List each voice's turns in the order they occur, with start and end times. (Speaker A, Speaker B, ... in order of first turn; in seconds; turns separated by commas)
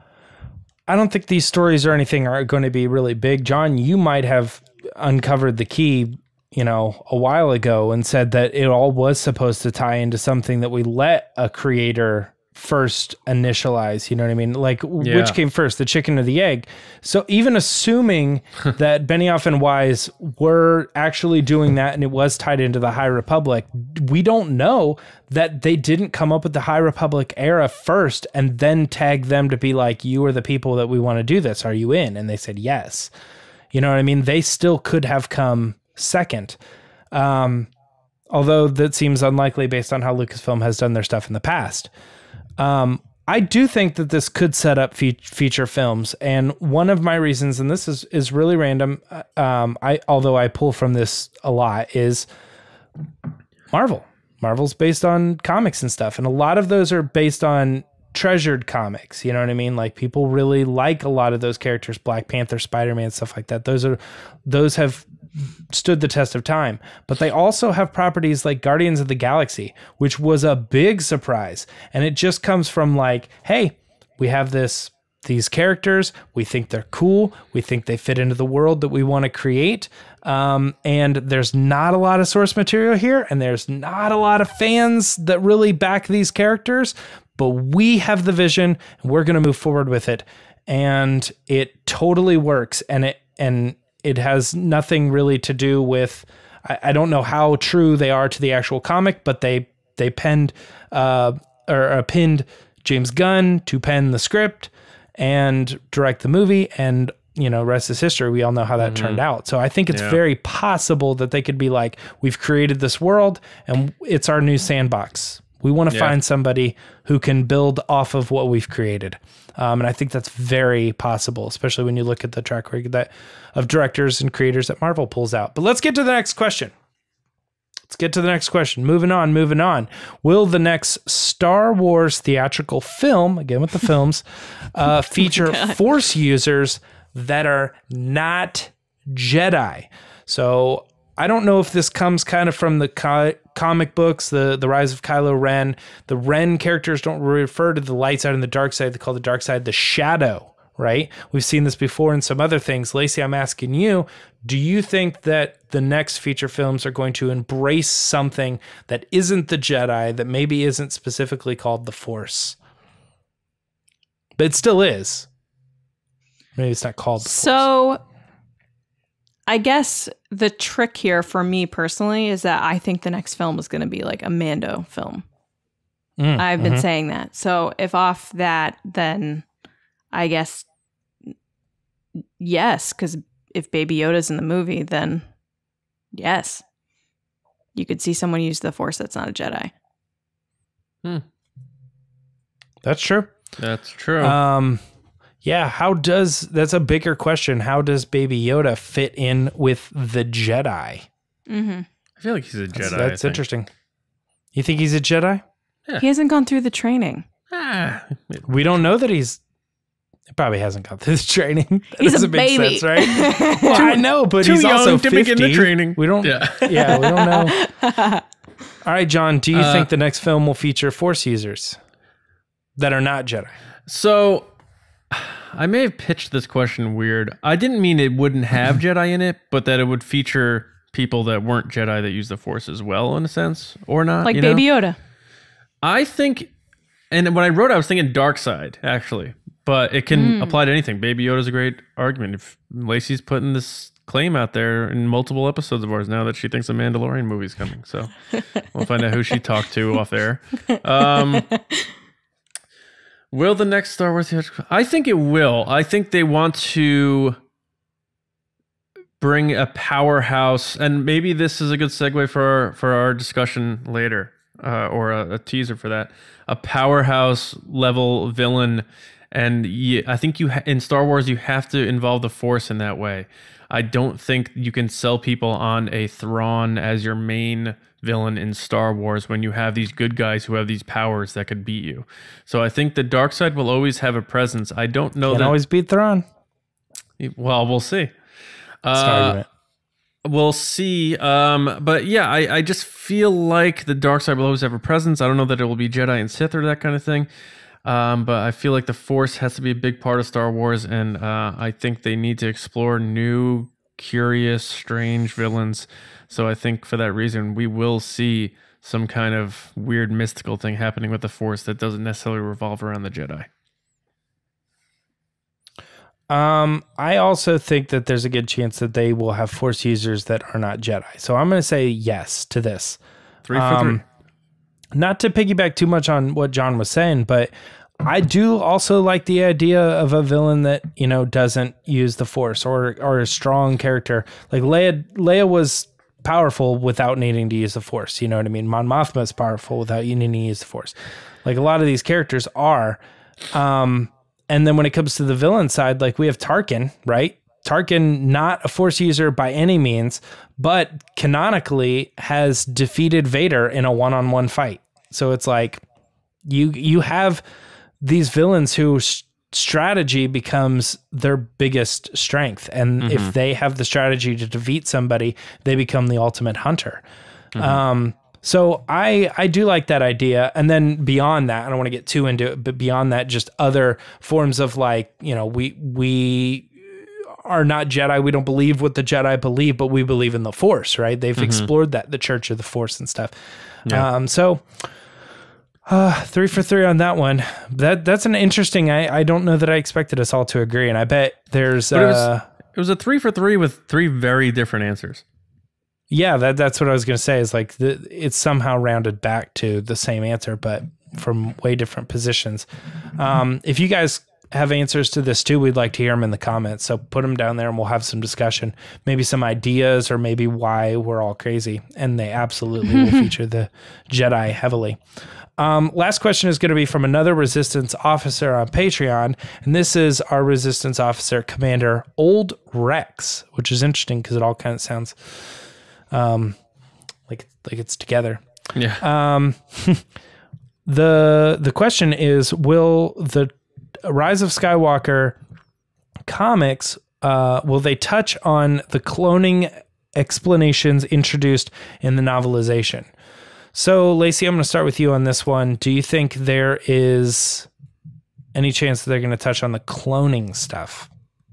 Speaker A: 0.9-33.1, Speaker B: 15.0-15.4, Speaker A: 33.7-36.6, Speaker A: 37.1-37.7, Speaker A: 38.3-41.9, Speaker A: 42.6-52.3, Speaker A: 53.7-65.1, Speaker A: 65.7-126.7, Speaker B: 108.8-109.2, Speaker B: 109.9-110.2, Speaker A: 127.9-162.6, Speaker C: 135.2-135.8, Speaker A: 164.4-165.3, Speaker A: 166.6-167.7, Speaker C: 167.2-168.0, Speaker C: 169.5-175.2, Speaker A: 176.2-176.8, Speaker C: 176.4-179.4, Speaker C: 180.1-180.7, Speaker C: 182.4-185.2, Speaker C: 186.1-186.6, Speaker C: 187.8-189.7, Speaker A: 192.8-193.3, Speaker B: 193.6-194.4, Speaker A: 194.2-194.8, Speaker A: 195.4-201.1, Speaker C: 201.5-201.9, Speaker B: 202.2-203.4, Speaker A: 202.7-203.7, Speaker A: 204.6-205.4, Speaker C: 206.0-207.3, Speaker B: 207.5-208.5, Speaker A: 208.5-209.4, Speaker A: 210.3-217.6, Speaker C: 212.0-214.0, Speaker B: 214.4-217.1, Speaker C: 216.9-218.2, Speaker A: 218.8-221.8, Speaker B: 219.5-219.9, Speaker A: 222.8-223.6, Speaker B: 223.9-224.5, Speaker B: 225.1-234.6, Speaker C: 234.2-235.0, Speaker B: 235.8-236.5, Speaker B: 237.1-251.5, Speaker C: 240.1-240.6, Speaker C: 251.2-251.8, Speaker B: 253.3-257.4, Speaker B: 259.2-285.6, Speaker A: 285.2-286.3, Speaker B: 287.2-288.1, Speaker B: 288.8-289.4, Speaker A: 288.9-289.5, Speaker B: 290.2-297.3, Speaker B: 297.9-313.5, Speaker A: 316.3-323.0, Speaker B: 323.5-324.0, Speaker A: 323.5-324.0, Speaker A: 324.9-327.5, Speaker A: 328.0-343.0, Speaker A: 343.5-355.8, Speaker A: 356.4-357.4, Speaker A: 358.0-367.0, Speaker B: 363.0-363.3, Speaker A: 367.6-383.3, Speaker B: 367.6-367.8, Speaker B: 381.4-381.7, Speaker A: 383.9-384.9, Speaker A: 385.9-392.4, Speaker B: 391.9-395.2, Speaker A: 396.1-402.7, Speaker A: 403.2-415.0, Speaker A: 415.6-425.2, Speaker A: 426.1-426.6, Speaker A: 427.3-428.4, Speaker B: 428.8-429.0, Speaker A: 429.0-430.0, Speaker A: 430.9-435.4, Speaker A: 436.3-443.1, Speaker A: 443.7-447.7, Speaker A: 448.5-451.1